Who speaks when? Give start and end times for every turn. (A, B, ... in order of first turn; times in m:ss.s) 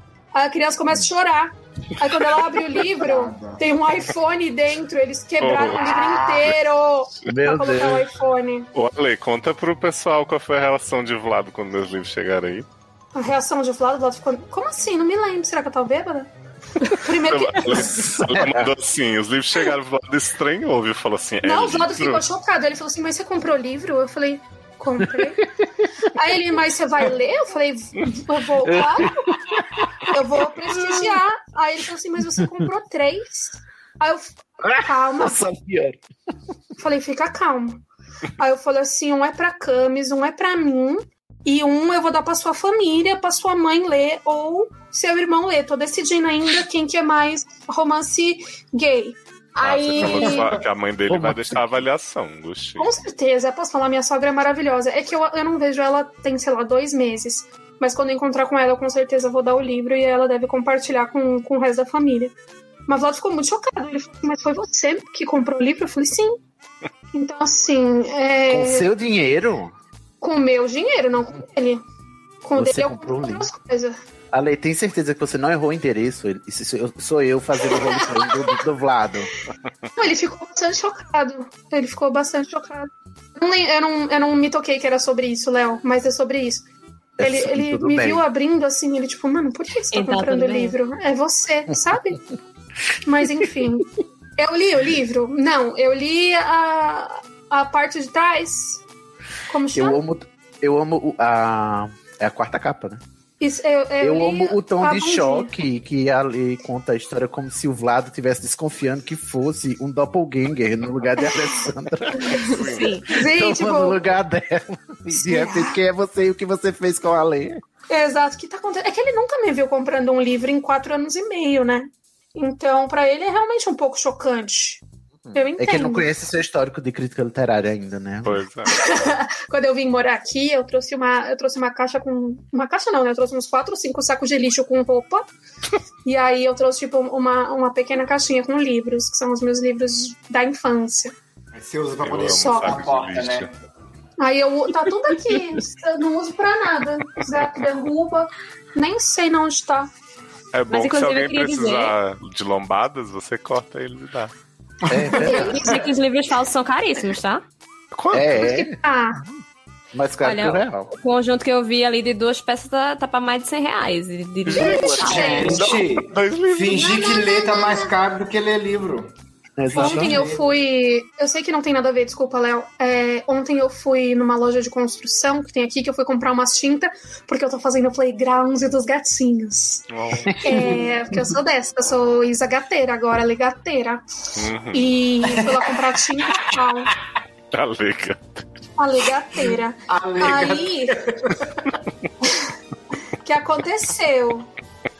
0:00.3-0:08.7 A
0:03.0-0:03.6 B
0:05.4-0:06.6 C
0:07.3-0:08.1 D
0:08.7-0:12.7 C
0:13.2-0:16.3 A
0:16.9-0:17.9 A
0:17.3-0:22.2 C
0:17.8-0:18.7 D
0:21.4-0:25.4 A
0:26.1-0:29.3 A
0:28.6-0:29.1 D
0:30.1-0:35.4 A
0:30.7-0:31.1 D
0:34.7-0:36.0 D
0:36.8-0:37.8 A
0:38.4-0:50.6 A
0:49.6-0:52.9 C
0:51.1-0:51.6 D
0:52.8-1:02.3 A
1:02.9-1:06.4 A
1:07.1-1:08.9 A
1:08.5-1:09.8 D
1:10.2-1:11.8 A
1:12.4-1:14.0 A
1:12.6-1:13.5 D
1:14.3-1:19.3 D
1:17.6-1:18.6 A
1:20.0-1:26.6 A
1:27.2-1:32.2 A
1:27.2-1:28.2 D
1:29.9-1:30.8 E
1:33.0-1:38.8 A
1:39.5-1:40.0 A
1:39.7-1:43.0 D
1:43.4-1:45.5 A
1:44.0-1:57.6 D
1:52.6-1:52.9 C
1:52.6-1:53.1 E
1:53.1-1:54.0 A
1:55.2-1:55.7 A
1:57.9-2:04.8 A
2:05.3-2:08.4 D
2:05.3-2:06.1 A
2:08.2-2:08.7 C
2:08.7-2:15.3 A
2:16.0-2:21.2 A
2:21.5-2:23.5 B
2:22.0-2:23.5 C
2:22.2-2:22.8 A
2:24.2-2:29.9 A
2:30.5-2:34.3 C
2:30.7-2:32.0 E
2:34.9-2:35.6 D
2:35.1-2:37.4 E
2:35.2-2:35.7 A
2:37.9-2:38.3 C
2:38.1-2:38.8 D
2:38.3-2:39.2 A
2:39.9-2:40.9 D
2:40.2-2:45.6 E
2:44.4-2:47.0 C
2:44.6-2:45.8 A
2:44.6-2:45.2 D
2:45.1-2:49.1 B
2:46.6-2:48.0 A
2:49.6-2:50.2 D
2:49.7-2:59.8 A
2:49.8-2:50.4 B
2:59.9-3:00.3 C
3:00.3-3:00.8 D
3:00.4-3:04.0 A
3:04.4-3:04.9 C
3:04.7-3:06.9 A
3:07.5-3:08.5 C
3:08.8-3:11.0 A
3:09.4-3:11.1 B
3:13.2-3:14.5 A